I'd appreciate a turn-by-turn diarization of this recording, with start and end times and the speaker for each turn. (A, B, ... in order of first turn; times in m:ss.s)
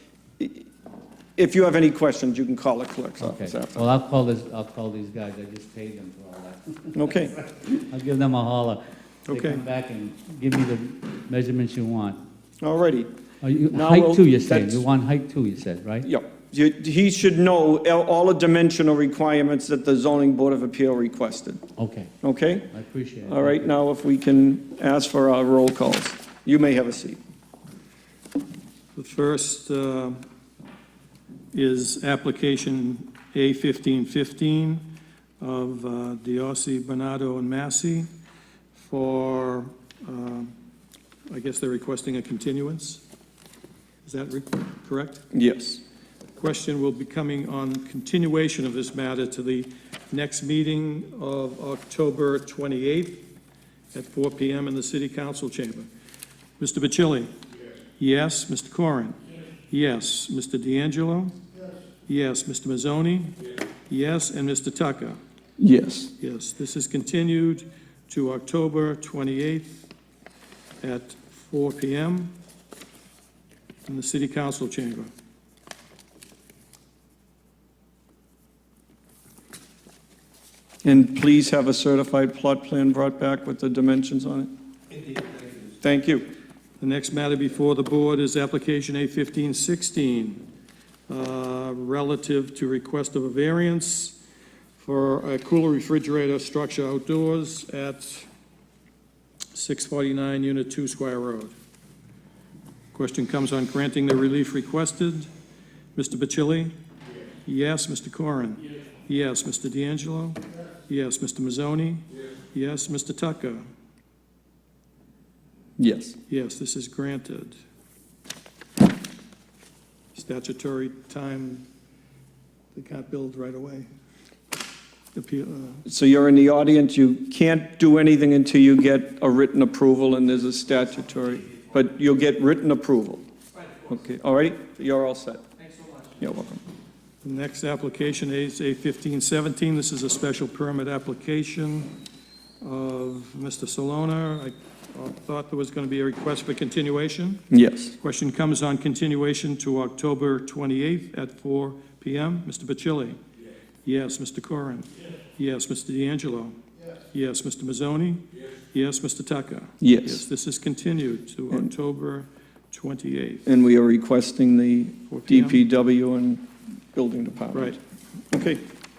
0:00.4-0:00.6 A
0:01.4-0:03.8 A
0:03.2-0:12.2 B
0:06.9-0:07.3 A
0:09.3-0:09.6 C
0:12.6-0:13.1 A
0:13.4-0:16.1 B
0:13.7-0:14.8 A
0:16.0-0:21.6 A
0:21.8-0:22.1 B
0:22.2-0:22.7 A
0:22.7-0:23.7 B
0:23.2-0:27.2 A
0:28.9-0:30.2 C
0:31.5-0:34.8 C
0:35.4-0:38.1 C
0:38.7-0:40.5 C
0:41.3-0:43.0 C
0:44.0-0:45.2 C
0:45.3-0:45.8 A
0:46.4-0:53.2 C
0:53.9-0:55.9 C
0:56.6-0:57.3 C
0:58.0-1:01.3 C
1:02.1-1:03.4 C
1:03.9-1:05.2 C
1:05.6-1:06.1 A
1:06.2-1:09.8 C
1:10.8-1:12.3 C
1:13.8-1:15.1 C
1:20.8-1:24.5 A
1:25.8-1:26.2 A
1:26.8-1:30.4 C
1:31.1-1:34.2 C
1:34.8-1:38.3 C
1:39.5-1:41.5 C
1:42.9-1:45.3 C
1:46.0-1:46.7 C
1:47.4-1:53.6 C
1:55.8-1:56.2 A
1:56.3-1:57.6 C
2:00.1-2:01.6 C
2:02.7-2:03.9 C
2:05.1-2:05.8 C
2:05.8-2:13.2 A
2:13.8-2:15.4 A
2:16.2-2:16.6 A
2:17.2-2:21.9 C
2:22.6-2:27.4 C
2:27.5-2:28.0 A
2:28.0-2:33.2 C
2:33.8-2:36.5 C
2:37.1-2:43.4 C
2:39.8-2:40.2 A
2:43.4-2:47.8 A
2:45.1-2:45.6 C
2:48.3-2:48.6 A